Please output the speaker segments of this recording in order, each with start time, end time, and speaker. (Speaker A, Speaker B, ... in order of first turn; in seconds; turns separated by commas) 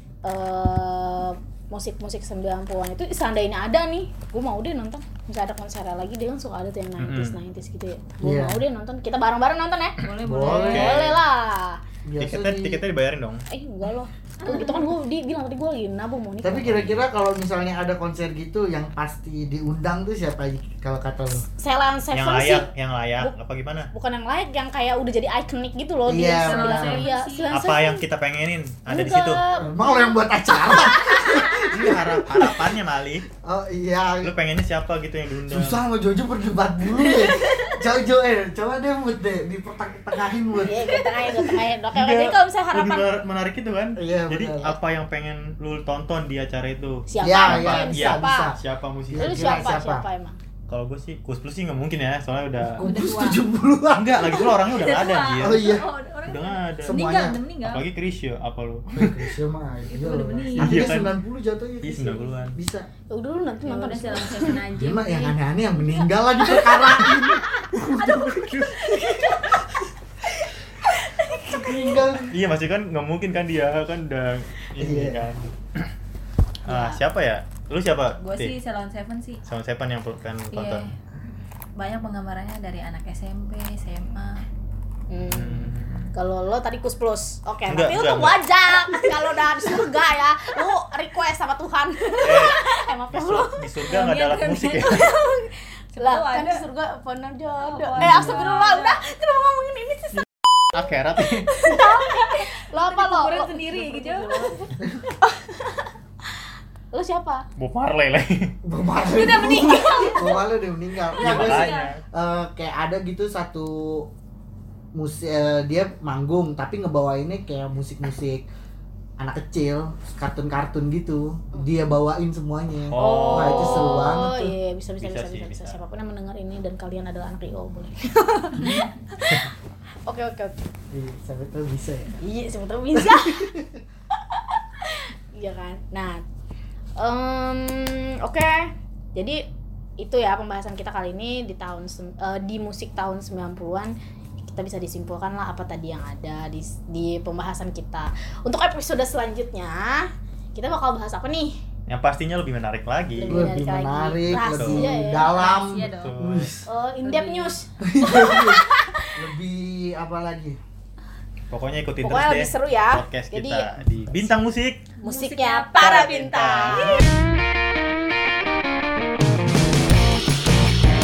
Speaker A: 0.2-11.8, Speaker B: 7.0-7.4, Speaker C: 8.2-8.6, Speaker D: 10.0-10.9, Speaker C: 10.2-11.0, Speaker B: 10.6-11.2, Speaker C: 12.1-12.8, Speaker B: 12.2-13.4, Speaker A: 13.5-16.9, Speaker D: 14.4-14.9, Speaker C: 16.4-21.4, Speaker B: 16.6-16.9, Speaker A: 21.6-22.7, Speaker B: 22.1-23.9, Speaker A: 23.9-28.0, Speaker C: 26.1-27.1, Speaker D: 26.4-27.5, Speaker B: 27.5-29.4, Speaker A: 28.9-31.6, Speaker C: 29.6-32.6, Speaker B: 31.5-33.2, Speaker C: 33.4-34.3, Speaker B: 34.2-35.8, Speaker C: 35.5-41.4, Speaker D: 37.1-37.7, Speaker A: 40.6-43.1, Speaker B: 41.9-49.6, Speaker C: 44.0-44.8, Speaker A: 47.1-48.5, Speaker C: 47.2-48.6, Speaker C: 49.1-50.0, Speaker A: 49.1-50.4, Speaker B: 50.7-52.8, Speaker C: 52.6-54.5, Speaker D: 52.8-53.4, Speaker B: 53.9-55.7, Speaker D: 54.3-57.8, Speaker C: 55.4-55.9, Speaker B: 56.2-57.0, Speaker C: 56.8-57.4, Speaker B: 57.6-59.2, Speaker C: 58.9-62.9, Speaker D: 59.9-61.1, Speaker B: 60.5-61.1, Speaker B: 61.8-62.6, Speaker A: 63.1-64.6, Speaker D: 63.6-65.3, Speaker C: 64.7-69.2, Speaker A: 65.8-67.8, Speaker A: 68.7-69.6, Speaker A: 70.9-72.0, Speaker C: 71.4-72.3, Speaker B: 72.3-75.9, Speaker C: 74.8-75.3, Speaker B: 76.7-78.5, Speaker A: 76.7-76.9, Speaker D: 78.2-79.4, Speaker B: 79.5-80.9, Speaker D: 80.5-81.0, Speaker D: 81.8-84.4, Speaker A: 85.1-93.7, Speaker B: 85.2-86.1, Speaker B: 87.7-88.4, Speaker B: 92.2-92.6, Speaker B: 93.1-95.1, Speaker D: 93.8-95.1, Speaker A: 94.9-100.2, Speaker D: 96.0-96.6, Speaker D: 97.6-99.0, Speaker B: 98.0-98.4, Speaker B: 100.7-101.5, Speaker A: 101.3-105.9, Speaker D: 101.7-104.6, Speaker A: 106.9-107.4, Speaker B: 107.6-108.5, Speaker C: 108.6-114.1, Speaker D: 109.0-110.5, Speaker A: 110.0-110.3, Speaker D: 111.0-111.9, Speaker B: 111.2-112.0, Speaker C: 114.9-118.5, Speaker C: 119.2-124.5, Speaker B: 122.9-124.2, Speaker A: 123.0-129.4, Speaker B: 125.0-125.8, Speaker C: 128.6-128.8, Speaker A: 130.1-130.6, Speaker C: 130.9-132.2, Speaker A: 132.2-133.5, Speaker C: 132.9-133.8, Speaker A: 134.2-136.2, Speaker A: 137.0-139.4, Speaker A: 140.0-151.6, Speaker B: 151.9-153.5, Speaker A: 153.2-155.4, Speaker C: 153.2-156.7, Speaker B: 154.3-155.0, Speaker D: 155.2-156.1, Speaker B: 155.7-156.5, Speaker A: 156.6-159.1, Speaker D: 157.0-157.6, Speaker C: 157.8-158.6, Speaker C: 159.2-160.6, Speaker B: 161.5-164.8, Speaker A: 162.0-163.7, Speaker D: 165.0-167.0, Speaker A: 165.0-167.1, Speaker B: 165.8-167.0